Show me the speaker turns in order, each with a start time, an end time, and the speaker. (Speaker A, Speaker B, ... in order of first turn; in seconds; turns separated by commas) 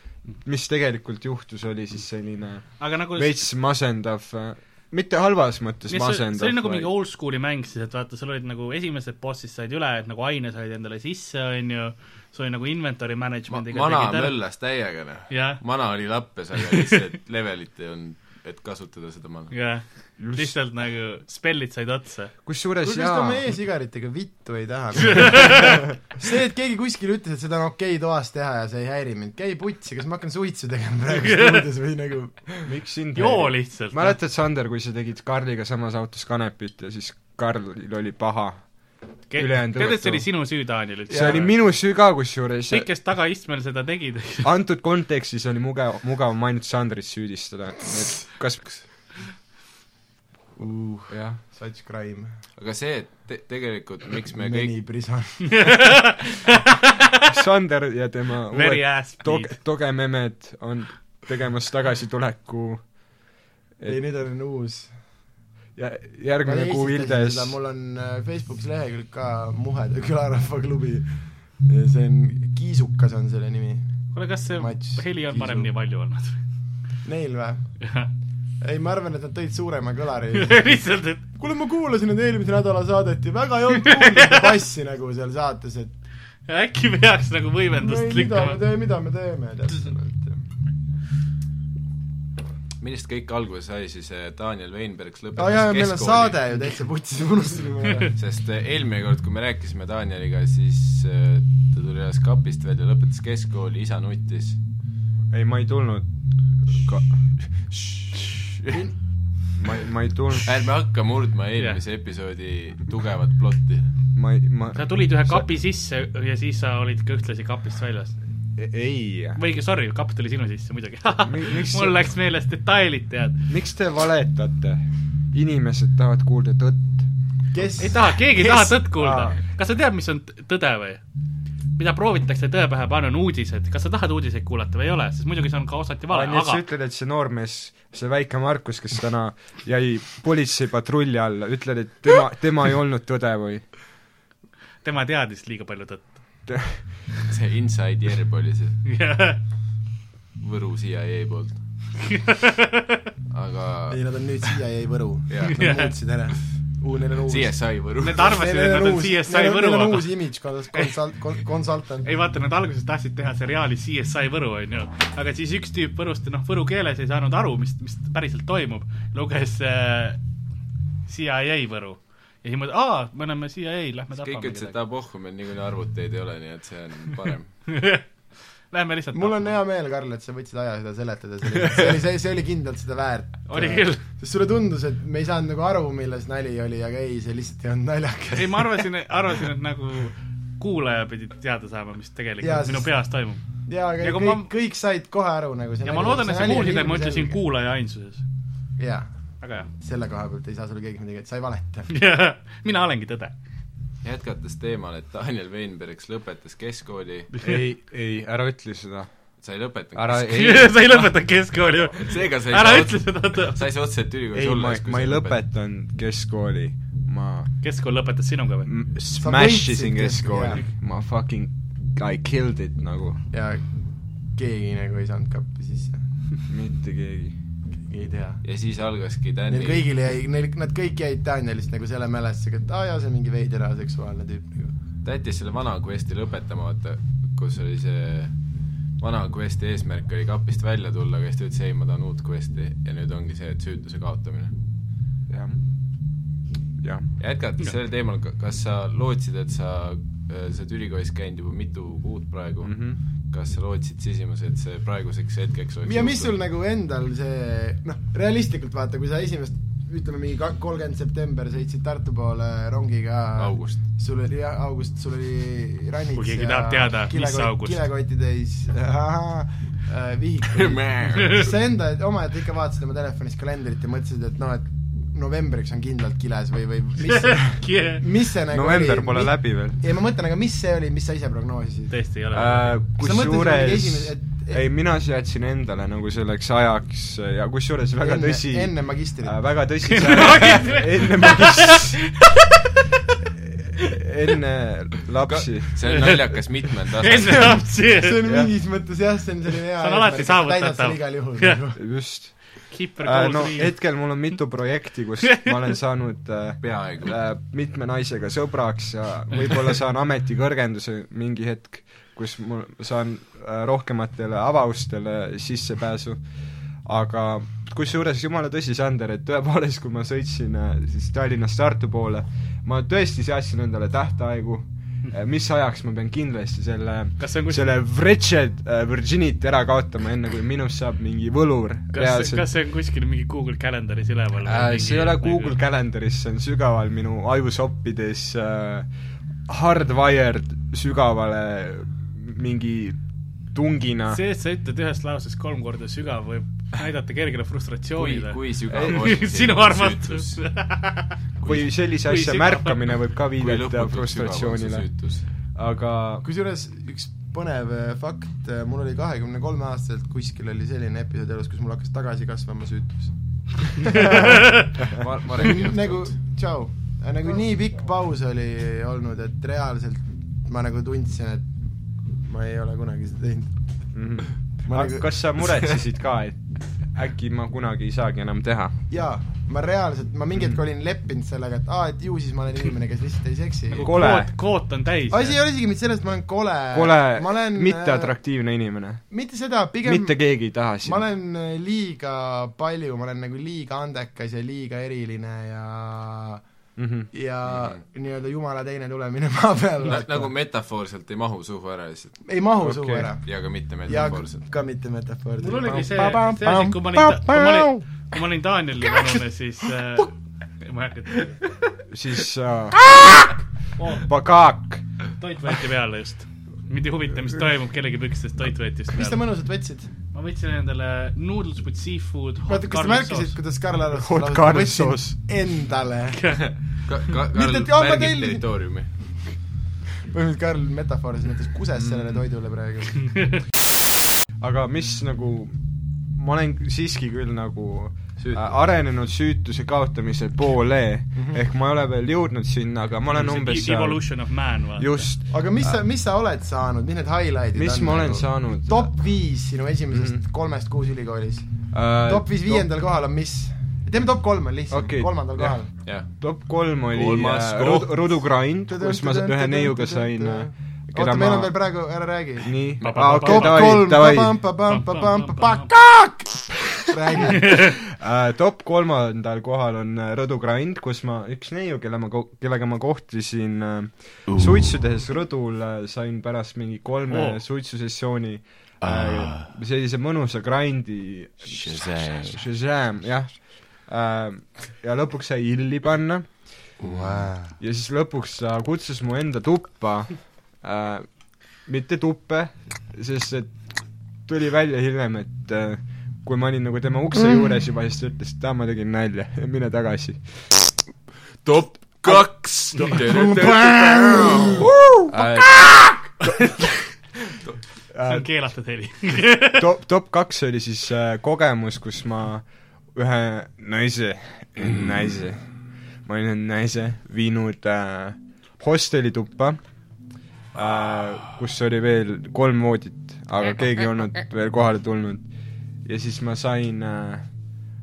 Speaker A: 0.4-6.9, Speaker B: 2.8-3.5, Speaker B: 5.9-14.3, Speaker C: 13.5-19.5, Speaker B: 15.3-15.6, Speaker B: 19.5-22.3, Speaker A: 20.2-20.6, Speaker A: 22.4-23.4, Speaker D: 22.8-32.7, Speaker B: 25.2-25.6, Speaker B: 31.1-31.6, Speaker A: 32.6-38.7, Speaker B: 33.1-34.2, Speaker B: 39.3-41.6, Speaker A: 39.4-40.3, Speaker A: 41.1-42.9, Speaker B: 42.7-44.5, Speaker A: 44.4-48.8, Speaker D: 50.6-52.3, Speaker A: 51.1-51.4, Speaker C: 52.6-54.7, Speaker D: 54.4-55.8, Speaker B: 55.4-57.2, Speaker A: 57.3-62.9, Speaker B: 58.5-59.6, Speaker D: 63.8-64.9, Speaker A: 65.8-67.5, Speaker D: 66.4-74.0, Speaker B: 74.1-76.4, Speaker D: 74.5-75.7, Speaker D: 77.0-77.9, Speaker B: 77.8-78.1, Speaker D: 78.6-80.8, Speaker B: 80.3-81.2, Speaker D: 81.3-85.9, Speaker B: 83.9-84.4, Speaker B: 86.5-88.6, Speaker D: 87.7-90.4, Speaker C: 92.8-96.6, Speaker D: 95.4-98.1, Speaker C: 98.1-104.6, Speaker A: 105.3-106.1, Speaker A: 106.7-107.0, Speaker C: 107.7-108.8, Speaker A: 109.6-110.5, Speaker C: 110.4-113.9, Speaker A: 114.1-115.5, Speaker B: 114.7-118.1, Speaker A: 118.5-119.4, Speaker B: 119.3-123.4, Speaker A: 121.2-122.0, Speaker A: 123.5-127.1, Speaker D: 127.5-128.0, Speaker B: 127.8-131.0, Speaker D: 128.5-129.3, Speaker A: 129.0-129.3, Speaker B: 131.8-136.6, Speaker A: 136.1-143.6, Speaker B: 144.8-146.2, Speaker A: 146.5-146.8, Speaker C: 147.3-148.8, Speaker B: 148.8-149.4, Speaker C: 150.4-151.6, Speaker B: 152.1-153.0, Speaker C: 153.3-154.0, Speaker D: 153.9-162.1, Speaker B: 155.4-155.9, Speaker C: 157.3-158.3, Speaker B: 158.0-160.1, Speaker B: 162.0-170.2, Speaker B: 171.1-174.8, Speaker C: 174.2-177.5, Speaker B: 177.7-178.0, Speaker B: 178.7-179.6, Speaker D: 179.1-188.8, Speaker B: 183.5-184.0, Speaker B: 188.3-193.4, Speaker D: 192.4-193.1, Speaker D: 193.7-197.4, Speaker B: 194.0-194.5, Speaker B: 195.8-198.2, Speaker D: 198.8-199.1, Speaker B: 199.4-199.7, Speaker D: 199.8-201.9, Speaker B: 201.9-203.3, Speaker C: 204.0-207.3, Speaker B: 207.3-207.6, Speaker A: 207.4-209.1, Speaker C: 209.4-210.7, Speaker A: 209.9-210.8, Speaker B: 210.3-213.6, Speaker C: 211.9-215.4, Speaker A: 214.3-217.5, Speaker B: 217.6-218.7, Speaker A: 218.7-223.2, Speaker D: 219.2-220.6, Speaker D: 223.3-223.6, Speaker D: 224.3-226.0, Speaker A: 226.5-227.3, Speaker D: 227.9-228.4, Speaker C: 228.4-229.9, Speaker D: 229.5-234.7, Speaker C: 235.0-238.3, Speaker C: 239.0-244.5, Speaker A: 245.3-245.6, Speaker A: 246.8-247.1, Speaker C: 247.2-256.3, Speaker A: 252.6-253.0, Speaker D: 255.8-281.9, Speaker C: 263.4-263.8, Speaker B: 266.1-267.8, Speaker C: 270.5-271.5, Speaker B: 277.0-278.0, Speaker A: 278.5-279.8, Speaker B: 281.9-282.8, Speaker A: 282.3-292.0, Speaker D: 283.0-284.6, Speaker D: 288.0-289.4, Speaker B: 289.8-292.8, Speaker A: 293.4-296.1, Speaker C: 295.3-297.6, Speaker B: 295.8-296.2, Speaker B: 297.0-298.2, Speaker D: 297.3-301.8, Speaker B: 299.8-301.6, Speaker A: 301.8-316.2, Speaker B: 302.7-303.9, Speaker C: 306.6-307.2, Speaker A: 316.8-332.5, Speaker B: 327.2-327.7, Speaker B: 331.9-335.6, Speaker A: 334.4-338.9, Speaker A: 339.5-343.0, Speaker A: 343.5-344.2, Speaker B: 344.1-351.1, Speaker C: 347.9-350.4, Speaker A: 348.7-349.0, Speaker A: 351.4-354.9, Speaker B: 352.0-352.9, Speaker C: 353.4-355.2, Speaker A: 355.5-356.2, Speaker D: 356.2-364.7, Speaker B: 363.9-364.6, Speaker C: 364.9-366.1, Speaker D: 365.4-371.5, Speaker D: 372.2-373.5, Speaker A: 373.9-376.4, Speaker D: 374.6-375.1, Speaker A: 376.9-378.7, Speaker D: 378.9-383.9, Speaker B: 383.7-385.4, Speaker A: 383.8-384.3, Speaker D: 385.1-388.1, Speaker A: 386.7-389.0, Speaker D: 389.1-396.4, Speaker A: 389.8-391.0, Speaker A: 396.8-397.1, Speaker D: 397.1-400.3, Speaker C: 397.4-397.8, Speaker C: 399.8-402.2, Speaker D: 402.2-403.3, Speaker A: 402.6-403.1, Speaker C: 403.2-404.4, Speaker D: 403.8-407.8, Speaker B: 405.4-411.3, Speaker A: 411.9-413.0, Speaker B: 413.8-414.1, Speaker A: 414.0-414.8, Speaker B: 415.2-419.2, Speaker D: 418.9-419.9, Speaker B: 420.1-423.3, Speaker D: 422.5-426.4, Speaker A: 423.9-425.2, Speaker B: 426.2-426.4, Speaker C: 426.8-428.9, Speaker D: 427.3-428.4, Speaker D: 430.1-433.3, Speaker A: 434.4-435.6, Speaker A: 436.1-445.7, Speaker C: 438.2-438.4, Speaker D: 441.1-441.4, Speaker B: 443.1-445.1, Speaker D: 445.3-455.7, Speaker A: 447.5-448.9, Speaker A: 449.9-450.2, Speaker A: 451.7-452.7, Speaker A: 454.7-461.6, Speaker C: 455.8-456.1, Speaker C: 456.9-458.1, Speaker D: 458.7-466.2, Speaker A: 462.4-464.4, Speaker B: 462.8-463.9, Speaker B: 464.7-465.7, Speaker D: 466.9-467.8, Speaker A: 467.4-486.8, Speaker B: 477.1-477.4, Speaker C: 479.1-479.3, Speaker C: 481.5-482.4, Speaker C: 486.8-487.5, Speaker A: 487.6-493.6, Speaker A: 494.2-500.2, Speaker C: 501.4-506.4, Speaker A: 502.0-506.6, Speaker D: 503.5-504.4, Speaker A: 507.9-508.3, Speaker B: 508.1-509.6, Speaker A: 509.4-519.6, Speaker A: 520.5-525.2, Speaker A: 525.8-527.3